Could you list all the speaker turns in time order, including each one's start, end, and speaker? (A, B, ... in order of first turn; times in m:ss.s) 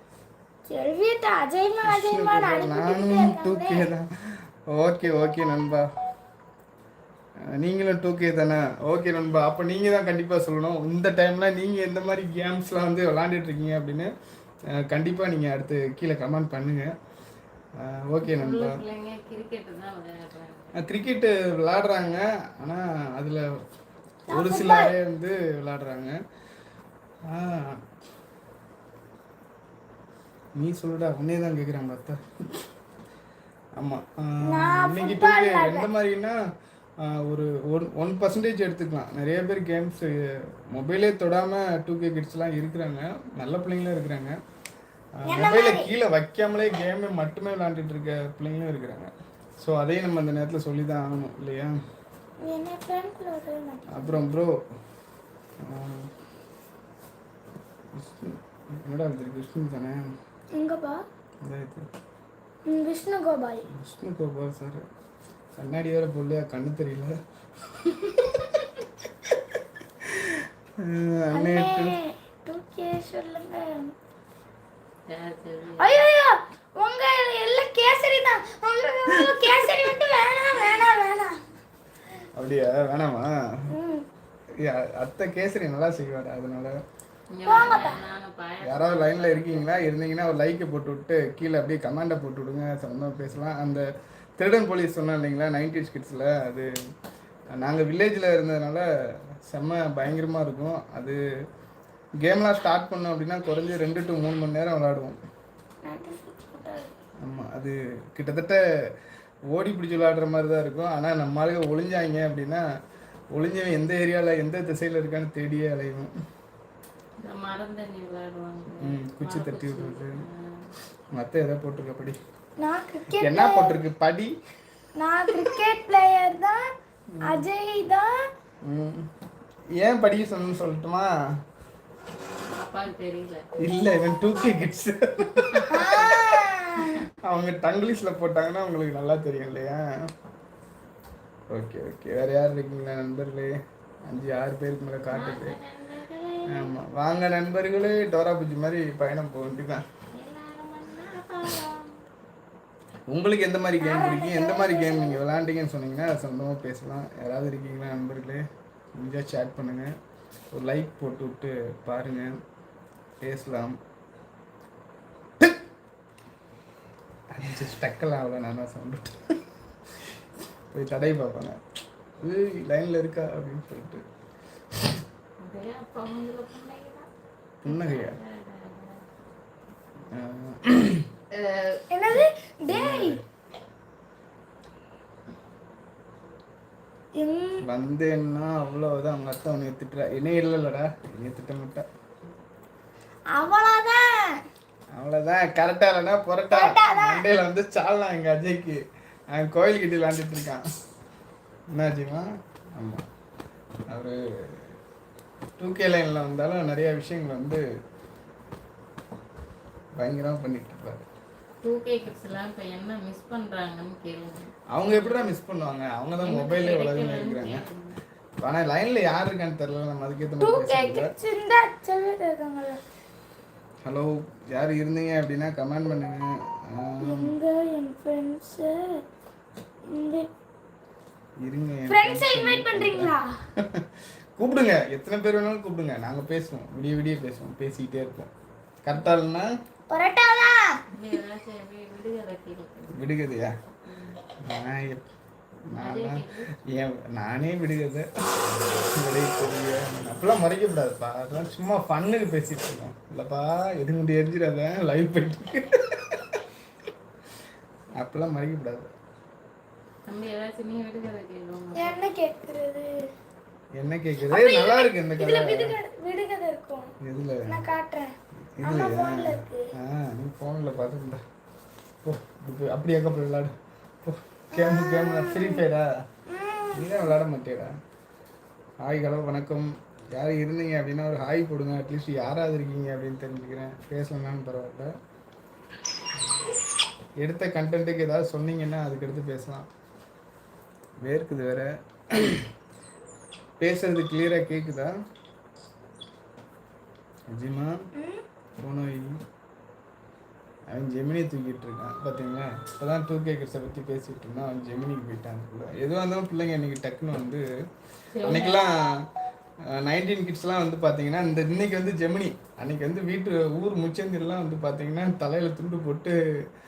0:00.7-0:03.9 A
0:01.8-0:05.9 B
0:07.5-0:14.1 B
0:14.7-0:16.9 B
0:17.8-0:18.8 B
0:18.2-0:20.8 C
0:20.8-0:23.6 B
0:24.3-0:25.0 A
0:24.3-0:26.2 B
0:27.3-0:27.8 B
0:30.6-0:32.6 B
0:33.8-0:36.4 B
0:34.4-0:35.9 A
0:37.0-0:44.4 B
0:45.2-0:51.8 B
0:45.2-0:45.9 A
0:52.4-0:54.2 A
0:53.9-0:54.6 B
0:55.6-0:56.1 B
0:58.0-1:00.1 B
1:00.5-1:01.0 A
1:01.4-1:01.9 B
1:02.7-1:03.6 A
1:03.7-1:04.9 B
1:05.6-1:07.2 B
1:07.7-1:09.4 B
1:10.0-1:12.0 B
1:11.3-1:13.9 A
1:15.1-1:16.0 C
1:15.8-1:21.4 A
1:22.4-1:23.7 B
1:23.7-1:24.1 A
1:24.6-1:26.8 B
1:27.3-1:29.9 C
1:27.4-1:28.0 A
1:28.6-1:33.8 B
1:34.4-1:36.7 B
1:37.6-1:38.9 B
1:39.5-1:41.2 B
1:42.2-1:45.2 B
1:45.8-1:46.9 A
1:47.2-1:48.6 B
1:49.5-1:52.6 B
1:53.3-1:56.1 B
1:57.2-2:00.7 C
1:58.8-2:00.2 B
2:01.1-2:02.2 B
2:02.6-2:03.8 A
2:03.2-2:04.4 B
2:05.0-2:08.3 A
2:07.1-2:07.5 B
2:08.6-2:09.1 B
2:09.8-2:11.2 B
2:12.5-2:13.5 C
2:13.6-2:20.1 B
2:15.5-2:15.9 C
2:15.7-2:17.0 A
2:21.5-2:25.6 B
2:25.1-2:26.5 C
2:26.5-2:29.8 B
2:30.1-2:32.0 A
2:33.1-2:39.9 B
2:33.8-2:35.2 A
2:40.5-2:42.4 B
2:43.2-2:43.8 B
2:47.3-2:49.4 B
2:50.7-2:51.6 B
2:52.2-2:54.0 B
2:55.4-2:57.1 C
2:57.6-2:58.2 B
2:57.7-2:59.1 C
3:00.1-3:01.1 B
3:01.3-3:01.8 C
3:01.9-3:03.2 A
3:02.7-3:03.2 B
3:07.2-3:07.6 A
3:07.6-3:11.9 B
3:13.3-3:14.4 A
3:15.0-3:20.6 B
3:16.5-3:17.3 A
3:21.7-3:23.1 B
3:23.9-3:24.7 B
3:25.6-3:27.6 B
3:30.0-3:31.1 B
3:31.6-3:35.4 C
3:34.7-3:37.7 B
3:36.2-3:38.0 C
3:38.4-3:41.1 B
3:40.4-3:42.8 A
3:43.9-3:47.3 B
3:47.0-3:49.0 A
3:49.9-3:50.3 A
3:51.4-3:58.3 B
3:51.9-3:53.3 A
3:58.8-3:59.5 B
3:59.9-4:00.8 A
4:00.9-4:03.2 C
4:02.9-4:03.6 B
4:03.8-4:04.2 C
4:04.4-4:05.0 B
4:05.7-4:16.4 B
4:05.8-4:06.5 C
4:18.0-4:18.9 B
4:20.1-4:22.0 C
4:21.8-4:23.1 A
4:23.8-4:25.8 B
4:24.3-4:26.9 A
4:27.0-4:27.6 B
4:27.5-4:29.7 A
4:28.5-4:31.2 B
4:32.0-4:36.0 B
4:34.5-4:35.6 A
4:36.3-4:37.2 A
4:36.7-4:37.8 B
4:38.8-4:44.9 B
4:47.2-4:49.7 B
4:51.0-4:52.5 B
4:53.6-4:54.9 B
4:57.3-4:57.9 B
4:58.0-4:58.2 A
4:58.6-4:59.2 B
5:00.7-5:07.4 B
5:08.1-5:08.7 C
5:08.2-5:09.1 B
5:09.7-5:16.2 B